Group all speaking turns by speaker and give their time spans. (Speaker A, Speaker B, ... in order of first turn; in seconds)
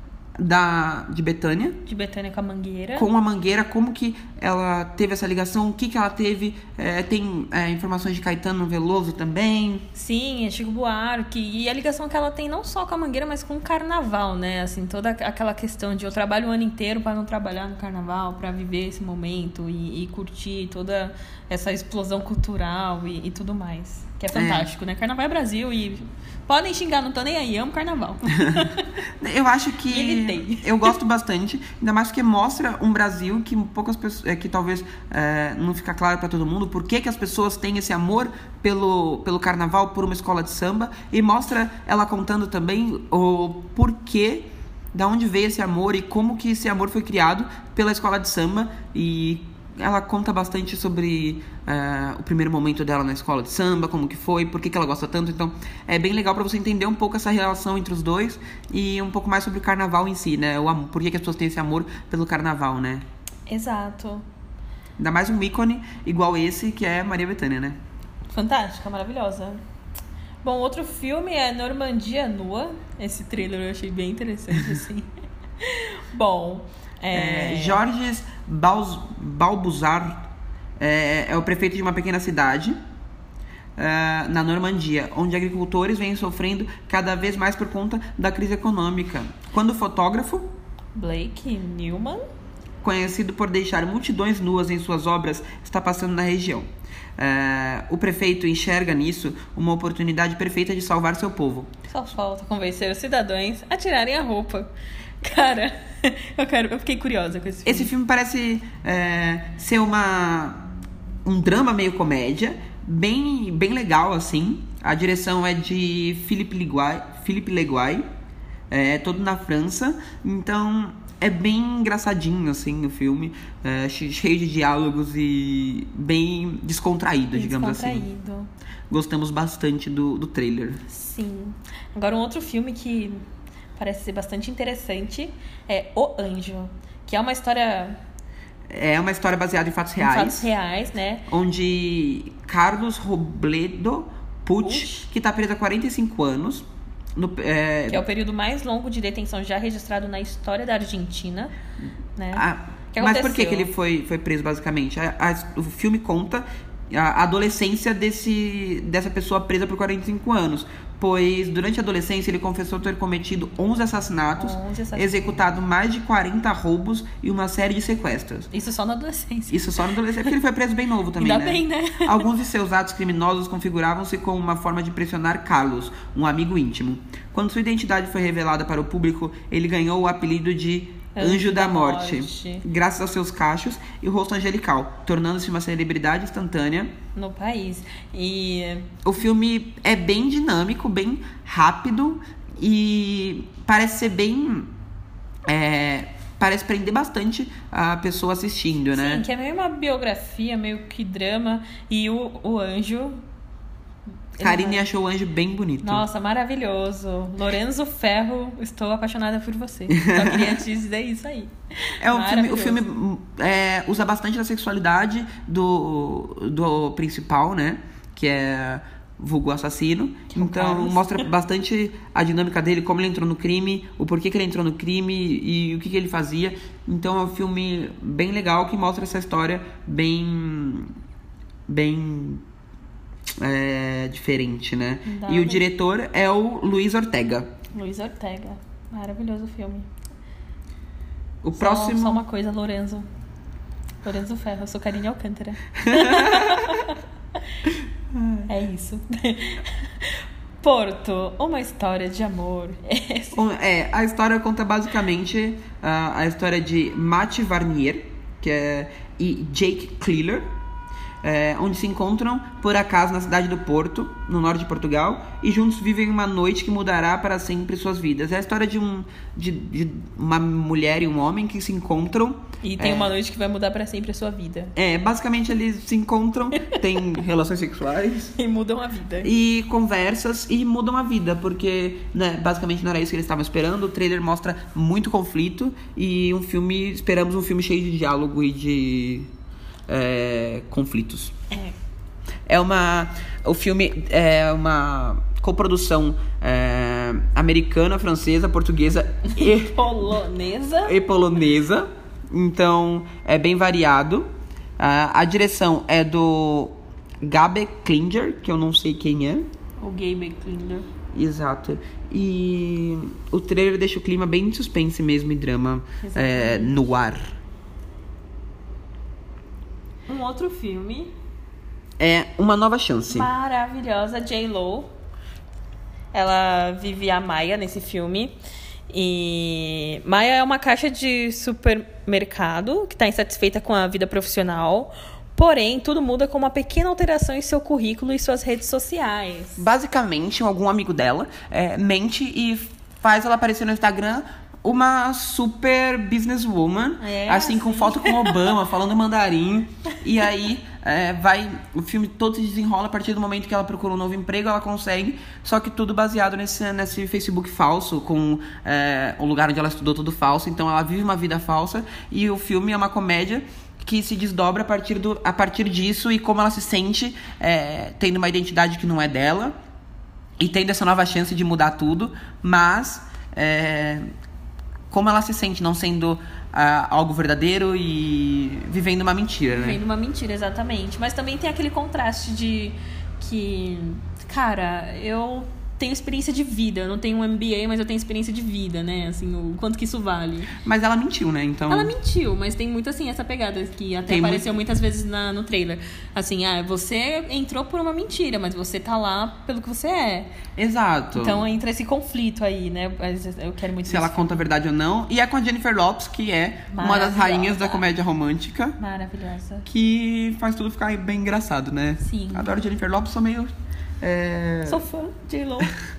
Speaker A: 0.4-1.8, 3.0-9.9, 24.3-24.7, 28.4-28.7, 29.2-63.0, 65.0-67.8, 77.1-80.3, 80.8-82.8, 83.8-90.5, 92.8-101.7, 107.7-110.7, 111.2-118.0, 118.7-128.1, 128.9-130.8, 138.7-140.5, 141.3-148.0, 152.3-168.5, 169.5-186.9, 189.1-194.7, 195.5-199.2, 204.4-206.1, 209.9-210.6, 212.0-230.9, 231.7-232.4, 233.4-237.5, 241.4-242.2, 245.8-246.8, 248.1-248.5, 253.3-260.5, 261.2-273.2, 274.8-278.4, 279.2-289.3, 289.9-291.4, 292.5-299.8, 300.9-304.3, 304.8-309.5, 311.1-317.3, 322.0-323.3, 339.6-369.6, 370.4-374.1, 374.9-379.8, 390.6-391.9, 394.1-394.5, 400.6-401.4, 403.9-408.8, 409.7-414.9
Speaker B: 1.9-3.1, 9.9-28.9, 29.9-30.9, 63.5-64.2, 68.3-69.6, 70.4-75.1, 75.6-77.8, 91.0-92.2, 101.9-104.7, 105.2-107.9, 127.3-128.5, 130.9-133.2, 133.8-138.0, 140.0-141.3, 144.6-145.1, 147.9-151.6, 152.2-153.7, 164.4-165.3, 168.5-169.8, 171.2-172.2, 181.2-182.7, 187.2-188.9, 198.9-203.2, 204.4-204.8, 205.8-212.8, 220.3-221.3, 235.1-235.6, 237.7-239.9, 241.6-243.1, 244.0-247.0, 248.5-253.4, 272.6-274.7, 278.4-279.3, 299.3-301.0, 309.8-310.9, 316.0-316.8, 320.1-321.1, 323.1-324.9, 326.1-328.4, 328.9-339.6, 347.0-348.5, 379.5-390.5, 391.7-400.3, 401.2-404.5, 406.7-407.8, 408.8-409.7, 412.0-412.6, 414.7-415.8